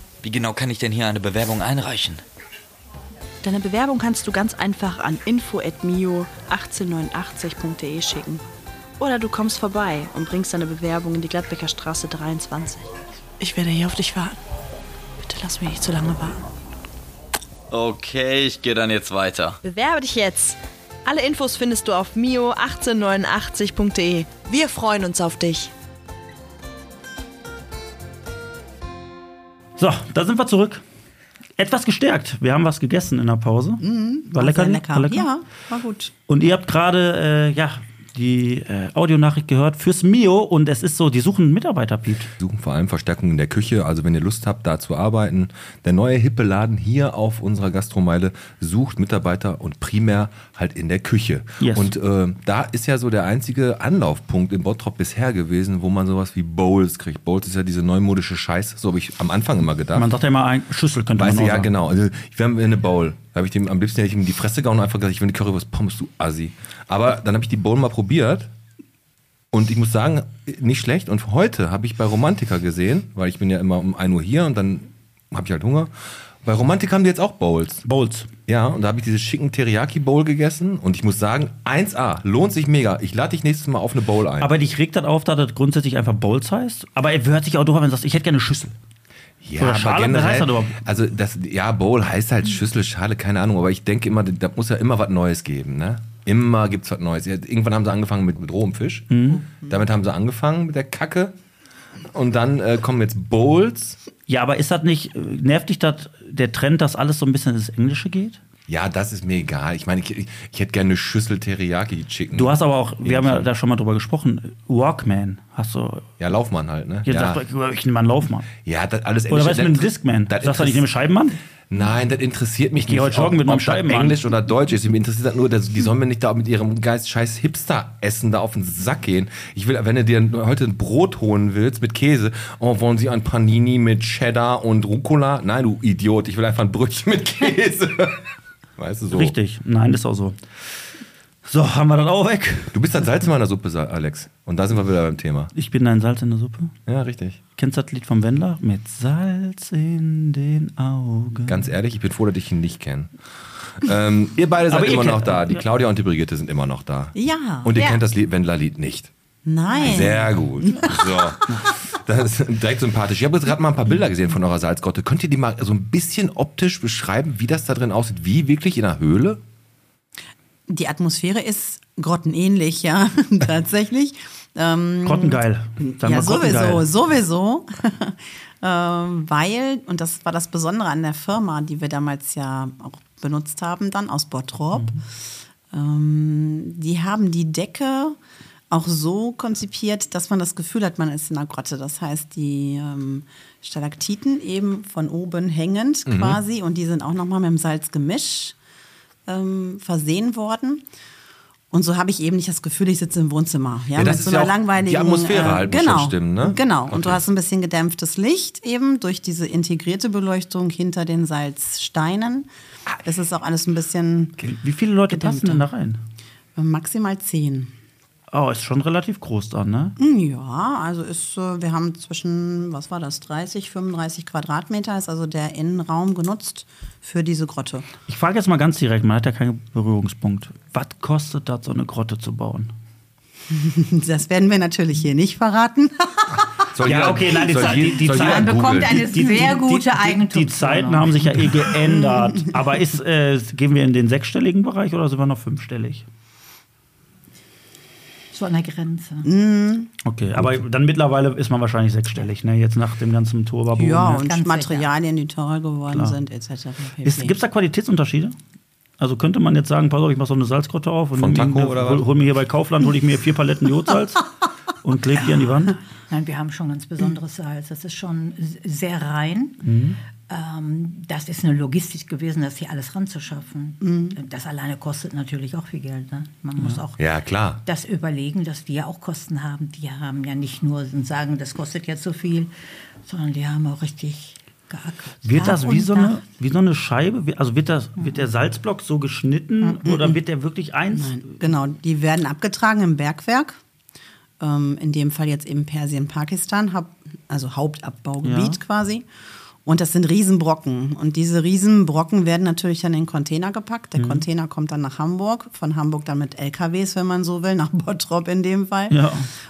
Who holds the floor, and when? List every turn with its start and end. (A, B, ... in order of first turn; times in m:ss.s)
0:00.2-0:02.2 A
0:03.4-0:08.4 B
0:09.0-0:14.4 B
0:15.2-0:16.5 B
0:17.7-0:19.6 A
0:19.6-0:25.7 B
0:29.8-0:30.8 C
0:31.6-0:35.3 C
0:33.8-0:36.1 D
0:36.3-0:42.3 C
0:42.4-1:00.1 E
0:51.6-0:51.9 C
0:59.9-1:01.7 C
1:01.2-1:08.5 E
1:09.5-1:15.9 E
1:16.4-1:17.8 E
1:17.8-1:18.3 C
1:18.5-1:24.5 E
1:24.4-1:28.8 C
1:29.4-1:41.4 E
1:29.6-1:30.8 C
1:39.1-1:39.4 C
1:42.1-1:44.0 E
1:44.3-1:48.4 C
1:48.7-1:53.5 E
1:52.3-1:56.1 C
1:56.2-1:57.4 E
1:57.0-1:58.5 C
1:58.6-2:00.9 E
1:59.3-2:01.4 C
2:01.7-2:19.3 E
2:02.9-2:04.2 C
2:19.1-2:20.4 C
2:21.5-2:22.8 C
2:22.7-2:25.5 E
2:25.5-2:26.7 C
2:26.9-2:27.4 E
2:27.6-2:31.7 C
2:31.5-2:33.1 E
2:33.7-2:39.1 E
2:34.7-2:35.6 C
2:37.2-2:37.9 D
2:39.4-2:41.3 D
2:39.8-2:49.4 E
2:50.7-3:05.0 D
2:55.0-2:56.8 C
3:05.7-3:08.2 D
3:08.7-3:18.6 D
3:16.1-3:16.4 E
3:19.3-3:20.8 D
3:21.7-3:32.5 D
3:24.0-3:27.2 E
3:33.0-3:34.4 D
3:34.4-3:36.0 C
3:35.1-3:35.7 D
3:36.6-3:37.7 D
3:38.3-3:40.0 C
3:40.0-3:47.9 D
3:48.1-3:52.7 C
3:53.5-3:56.5 D
3:56.7-3:59.1 E
3:56.8-4:06.0 C
3:58.0-4:01.2 F
4:01.8-4:02.5 D
4:08.3-4:09.3 F
4:09.2-4:09.9 D
4:10.0-4:14.2 C
4:10.4-4:10.6 E
4:13.8-4:17.4 D
4:14.2-4:14.9 F
4:15.9-4:16.2 C
4:17.0-4:18.4 C
4:19.0-4:24.3 C
4:21.2-4:22.1 E
4:24.8-4:25.8 C
4:26.1-4:29.6 F
4:29.6-4:30.0 C
4:30.3-4:37.0 F
4:33.8-4:34.2 D
4:37.0-4:37.6 E
4:37.6-4:42.5 F
4:43.0-4:46.2 F
4:45.2-4:51.4 C
4:48.0-4:48.3 F
4:49.9-4:50.2 D
4:50.9-4:53.6 D
4:54.4-4:59.1 D
4:58.2-4:58.6 C
4:59.6-5:09.0 D
5:04.0-5:04.2 C
5:08.9-5:09.3 C